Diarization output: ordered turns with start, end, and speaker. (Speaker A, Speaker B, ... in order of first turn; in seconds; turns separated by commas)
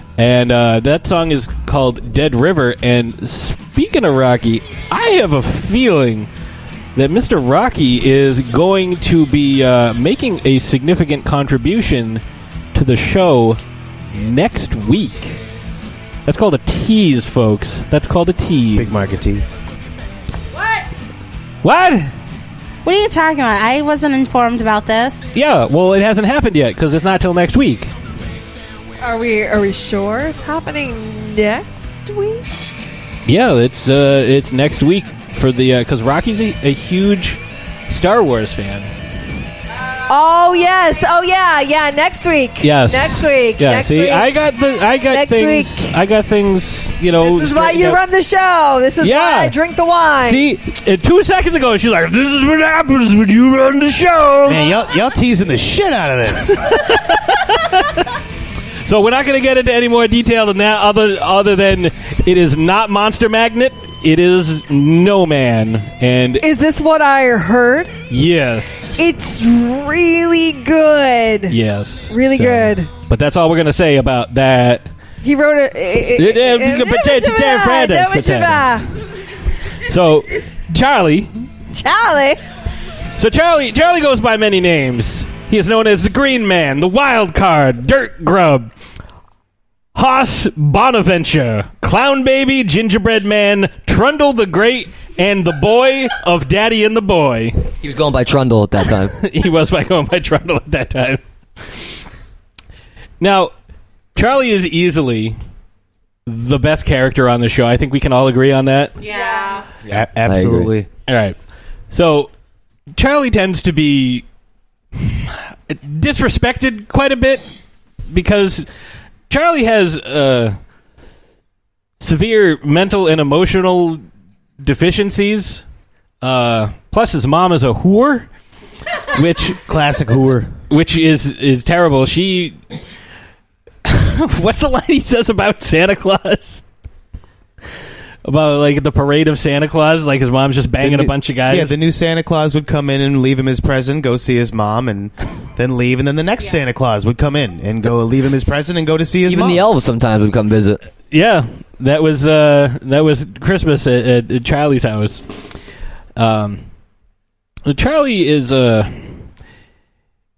Speaker A: 0.2-6.3, Speaker A: 7.0-12.2, Speaker A: 12.7-13.6, Speaker A: 14.1-15.4, Speaker A: 16.3-19.1, Speaker B: 18.8-19.5, Speaker A: 21.6-22.1, Speaker C: 22.9-25.3, Speaker A: 25.3-27.9, Speaker D: 29.0-32.5, Speaker A: 33.3-38.9, Speaker C: 39.8-40.5, Speaker D: 40.1-44.4, Speaker A: 42.6-48.0, Speaker D: 45.0-45.9, Speaker D: 47.2-50.5, Speaker A: 49.0-49.5, Speaker A: 50.2-54.7, Speaker B: 54.5-56.6, Speaker A: 56.6-58.1, Speaker A: 58.9-66.5, Speaker D: 66.4-68.0, Speaker A: 68.1-68.9, Speaker D: 69.0-71.6, Speaker A: 71.5-74.9, Speaker D: 72.1-72.9, Speaker D: 75.2-78.9, Speaker A: 76.2-78.7, Speaker A: 79.9-81.5, Speaker D: 81.7-82.4, Speaker A: 83.2-88.7, Speaker A: 90.0-97.7, Speaker E: 97.8-99.1, Speaker A: 99.2-101.2, Speaker A: 103.2-103.5, Speaker A: 104.2-105.4, Speaker A: 106.3-109.0, Speaker C: 109.0-109.7, Speaker D: 109.1-109.6, Speaker B: 109.9-110.9, Speaker E: 109.9-110.7, Speaker A: 111.1-111.4, Speaker A: 111.9-112.3, Speaker A: 112.9-114.2, Speaker A: 115.0-117.5, Speaker A: 118.1-118.7, Speaker A: 119.3-120.6, Speaker A: 122.0-124.0, Speaker A: 124.6-125.7, Speaker A: 126.2-128.3, Speaker A: 129.1-129.6, Speaker B: 129.7-130.5, Speaker A: 130.7-132.6, Speaker A: 133.8-136.6, Speaker A: 138.2-141.7, Speaker B: 140.8-149.6, Speaker E: 149.2-150.8, Speaker A: 151.1-155.2, Speaker A: 156.2-156.6, Speaker A: 157.7-159.2